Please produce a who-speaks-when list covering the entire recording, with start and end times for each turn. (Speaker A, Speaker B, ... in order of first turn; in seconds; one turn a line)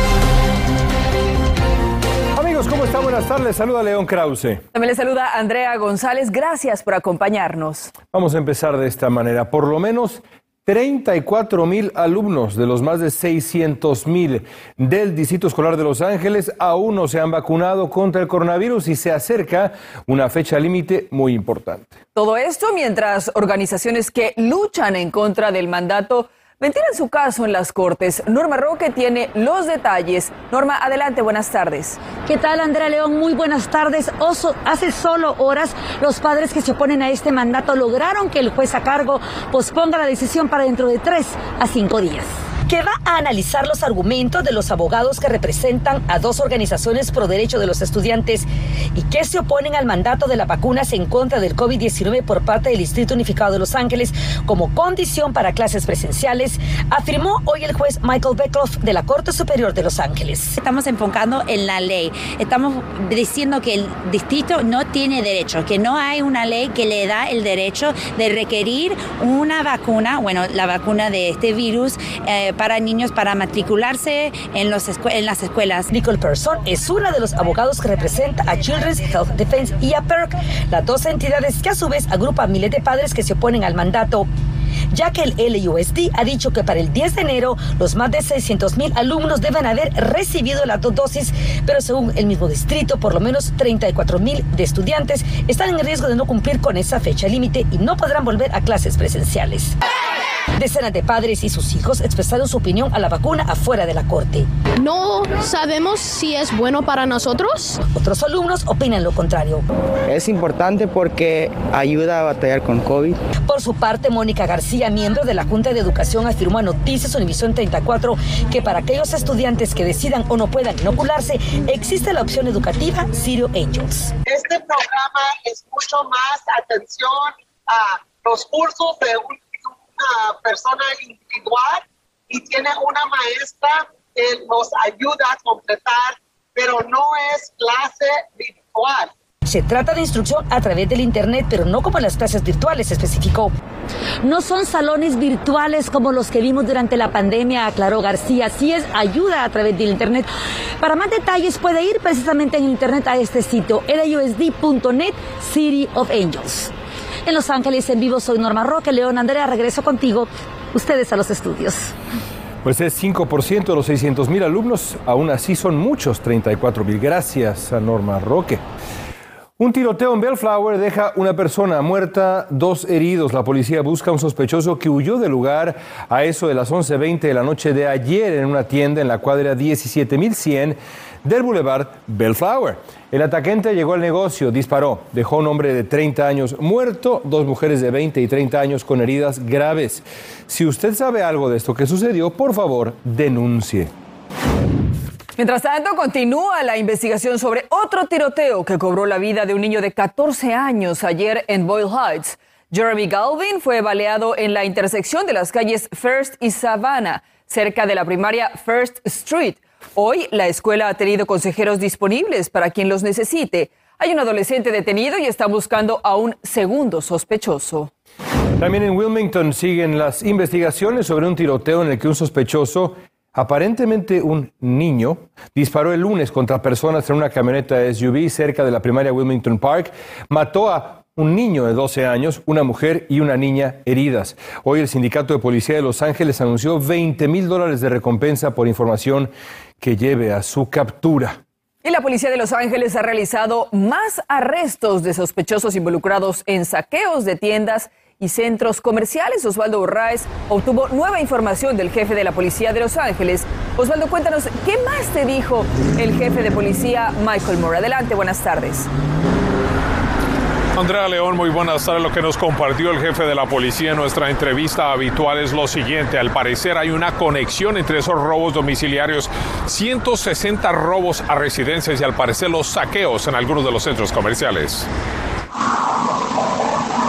Speaker A: 2.3-4.6
Speaker B: 4.7-7.9
Speaker A: 8.1-21.9
Speaker B: 22.1-32.0
Speaker C: 32.3-42.3
Speaker D: 42.7-60.5
Speaker E: 60.6-75.8
Speaker D: 75.9-84.3
Speaker D: 84.9-99.7
Speaker D: 100.6-104.5
Speaker F: 104.8-107.7
Speaker D: 107.9-109.6
Speaker G: 110.1-113.2
Speaker D: 113.5-124.1
Speaker H: 124.2-139.1
Speaker D: 139.4-143.5
Speaker C: 144.2-150.3
Speaker C: 150.8-156.7
Speaker C: 157.2-161.9
Speaker A: 162.6-168.6
Speaker A: 169.6-193.9
Speaker B: 195.4-217.9
Speaker A: 218.6-241.4
Speaker B: 241.8-258.9
Speaker I: 260.8-274.9